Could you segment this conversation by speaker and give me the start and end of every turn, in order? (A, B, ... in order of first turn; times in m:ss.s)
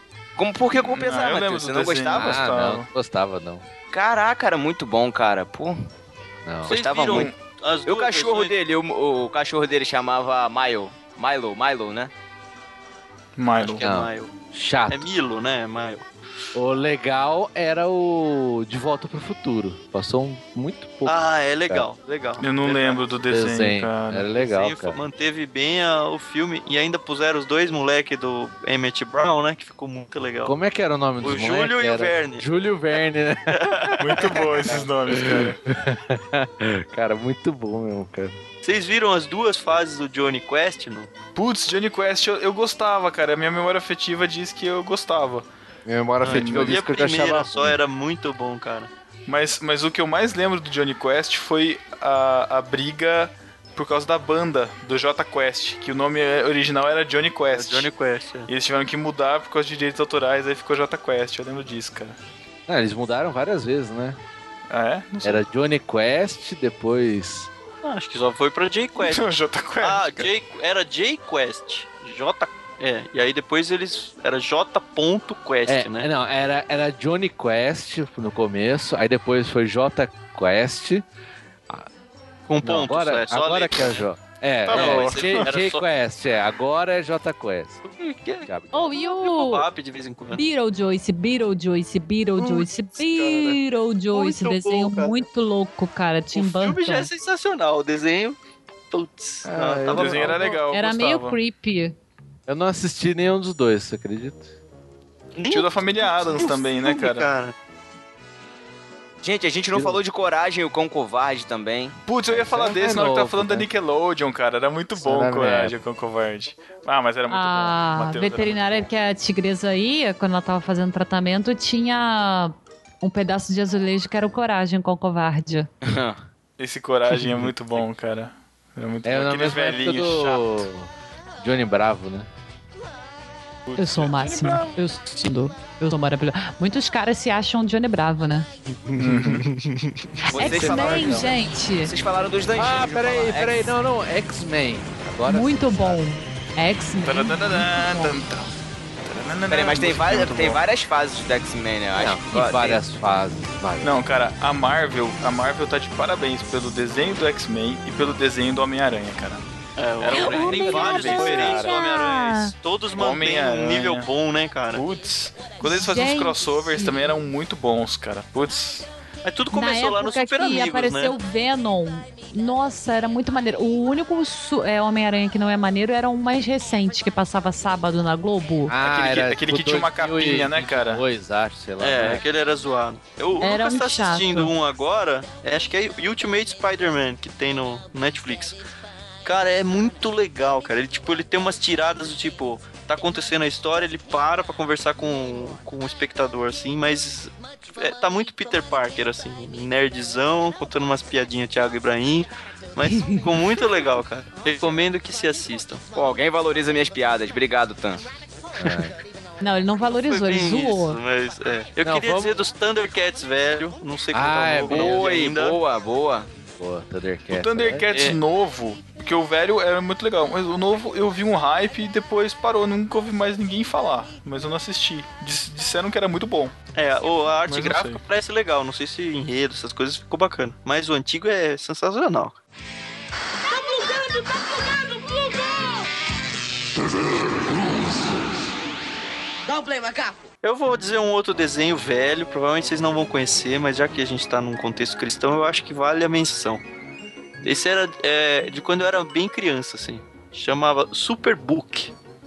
0:00.4-0:02.4 A
0:00.7-0:02.9 B
0:02.2-0:03.7 C
0:03.9-0:05.8 A
0:06.4-0:06.7 C
0:06.7-0:07.3 A
0:06.7-0:08.5 D
0:07.1-0:07.4 B
0:07.8-0:12.1 A
0:13.4-0:13.9 B
0:13.6-0:14.3 D
0:13.8-0:15.1 C
0:14.9-0:16.1 D
0:16.5-0:21.2 C
0:21.0-0:23.1 D
0:22.4-0:24.3 B
0:23.3-0:25.0 C
0:24.3-0:30.6 D
0:30.4-0:38.4 C
0:31.2-0:32.5 D
0:33.5-0:34.8 D
0:34.0-0:35.6 B
0:38.6-0:41.1 D
0:41.4-0:45.5 B
0:45.9-0:47.8 C
0:46.2-0:48.9 D
0:46.3-0:46.8 B
0:49.3-0:57.9 B
0:57.5-0:58.5 D
0:58.5-1:02.2 B
1:02.7-1:04.2 C
1:04.7-1:05.4 B
1:05.2-1:07.5 C
1:07.8-1:16.1 D
1:09.0-1:10.3 B
1:15.7-1:21.0 C
1:22.5-1:24.0 D
1:22.6-1:27.8 C
1:24.7-1:25.5 B
1:24.7-1:25.8 D
1:27.8-1:30.4 D
1:28.4-1:28.9 C
1:28.7-1:29.6 E
1:30.3-1:37.1 E
1:32.4-1:33.6 D
1:34.1-1:35.2 D
1:36.4-1:38.4 D
1:38.9-1:40.4 D
1:39.4-1:40.6 C
1:39.9-1:41.4 B
1:40.7-1:42.0 E
1:42.5-1:44.5 C
1:45.4-1:47.6 D
1:45.4-1:47.3 B
1:49.2-1:52.0 A
1:49.7-1:50.0 C
1:52.1-1:58.9 B
1:52.3-1:53.7 C
1:55.0-1:55.7 C
1:57.3-2:05.7 E
2:05.8-2:06.2 A
2:06.6-2:10.7 B
2:09.0-2:12.3 C
2:13.7-2:14.7 B
2:13.8-2:18.5 E
2:18.9-2:20.1 D
2:19.0-2:19.4 B
2:20.3-2:21.9 E
2:20.3-2:23.8 A
2:20.4-2:21.3 C
2:22.6-2:26.0 C
2:25.3-2:28.1 E
2:27.0-2:28.5 B
2:29.0-2:30.6 B
2:29.5-2:32.8 A
2:32.0-2:34.0 C
2:33.8-2:39.4 B
2:39.8-2:44.9 D
2:40.0-2:41.8 B
2:40.1-2:42.5 E
2:43.0-2:44.1 B
2:44.7-2:48.9 B
2:45.6-2:47.1 E
2:49.2-2:51.2 D
2:49.5-2:58.8 E
2:58.7-3:02.2 C
2:58.8-3:01.0 B
3:01.8-3:08.6 D
3:03.4-3:04.5 E
3:09.2-3:25.8 D
3:25.9-3:28.0 A
3:28.6-3:28.9 C
3:29.4-3:31.0 E
3:30.1-3:35.6 D
3:31.8-3:32.4 C
3:34.1-3:35.0 C
3:34.7-3:36.3 A
3:36.6-3:37.9 C
3:37.3-3:46.5 B
3:37.9-3:38.2 D
3:46.8-3:52.4 D
3:47.5-3:48.0 B
3:53.5-3:55.8 F
3:56.8-3:58.2 F
3:59.4-4:00.3 F
4:00.4-4:06.6 D
4:07.4-4:11.9 D